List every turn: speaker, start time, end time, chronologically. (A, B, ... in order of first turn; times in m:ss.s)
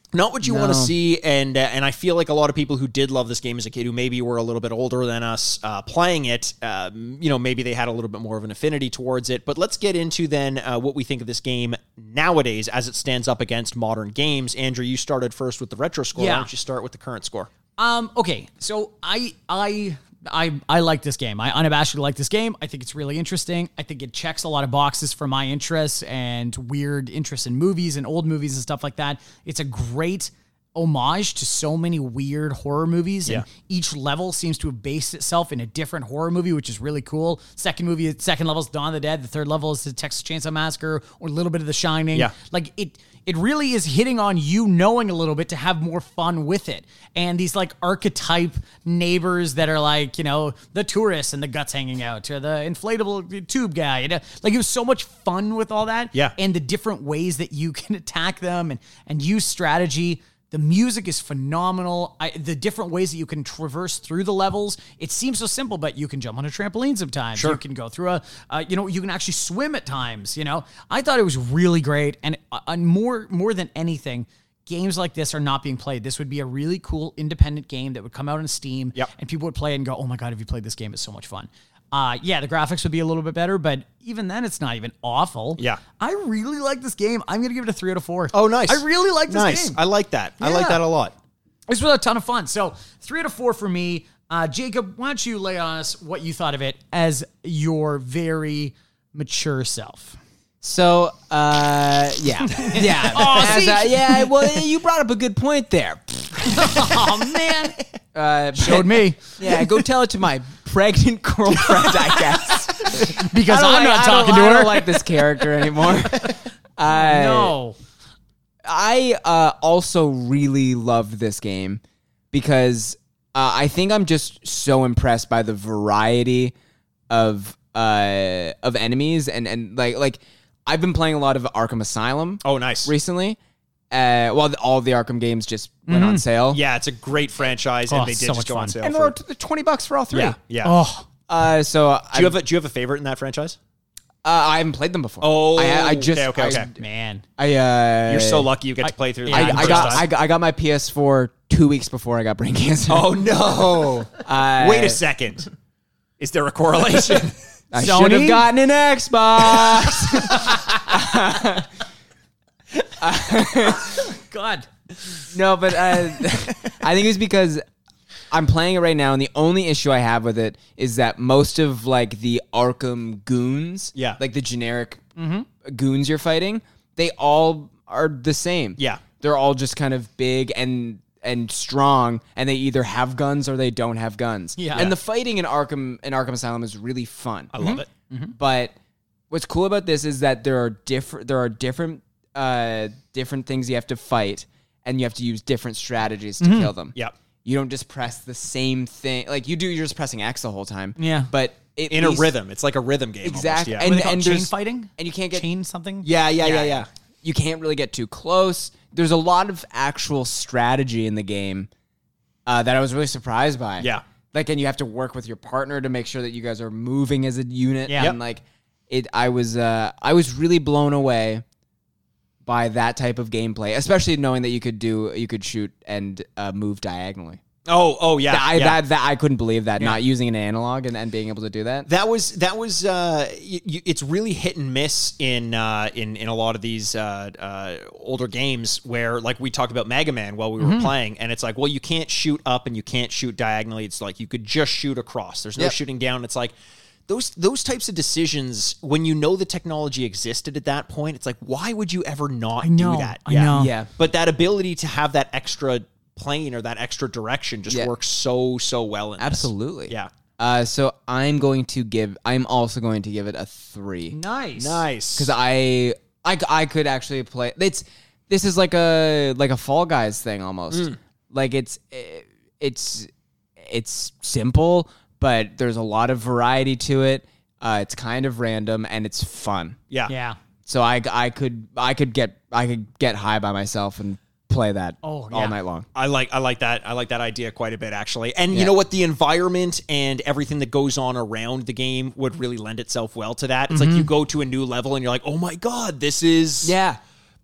0:00.1-0:17.5 A
0:00.4-0:00.9 B
0:16.2-0:16.5 C
0:17.8-1:29.8 C
1:28.3-1:31.1 A
1:30.4-1:30.8 C
1:31.7-1:40.2 C
1:40.6-1:47.0 B
1:42.4-1:44.6 C
1:46.4-1:47.8 C
1:48.1-1:57.5 B
1:48.5-1:49.7 C
1:52.4-1:55.2 C
1:56.9-1:57.8 C
1:58.6-2:01.8 B
2:02.3-2:06.5 B
2:07.1-2:13.4 B
2:12.4-2:12.9 A
2:13.9-2:16.6 B
2:15.9-2:16.2 C
2:16.5-2:19.1 A
2:17.9-2:18.9 C
2:18.8-2:20.4 B
2:20.1-2:20.7 A
2:20.6-2:21.1 C
2:21.3-2:22.4 B
2:22.1-2:23.6 A
2:24.2-2:26.7 B
2:25.2-2:26.7 A
2:26.8-2:27.2 C
2:27.4-2:28.5 B
2:28.1-2:30.0 A
2:29.2-2:30.0 C
2:29.3-2:33.2 B
2:32.9-2:35.5 A
2:34.1-2:35.0 B
2:36.2-2:37.4 A
2:37.7-2:41.7 B
2:37.7-2:38.5 C
2:40.2-2:40.8 C
2:43.0-2:44.1 B
2:43.8-2:45.3 C
2:45.3-2:47.6 B
2:48.3-2:55.0 B
2:55.2-2:55.5 C
2:55.6-3:07.5 B
2:58.8-2:59.0 A
3:04.6-3:04.9 C
3:07.5-3:07.8 A
3:07.6-3:08.3 C
3:08.4-3:08.7 B
3:09.3-3:22.3 B
3:16.4-3:16.7 C
3:21.0-3:21.3 C
3:21.9-3:23.9 A
3:23.2-3:25.4 B
3:23.8-3:26.8 C
3:26.0-3:26.9 A
3:27.2-3:31.7 B
3:32.4-3:41.4 B
3:42.4-3:47.4 B
3:47.7-3:48.8 A
3:48.3-3:51.9 B
3:51.9-4:06.5 A
4:00.6-4:00.9 C
4:07.1-4:20.1 A
4:12.6-4:13.7 C
4:13.5-4:13.9 B
4:19.2-4:24.1 B
4:24.1-4:24.8 C
4:24.6-4:25.3 A
4:25.2-4:39.8 B
4:40.1-4:40.4 C
4:40.6-4:45.9 B
4:45.0-4:45.6 C
4:45.9-4:56.7 A
4:53.7-4:54.1 C
4:56.6-4:57.0 B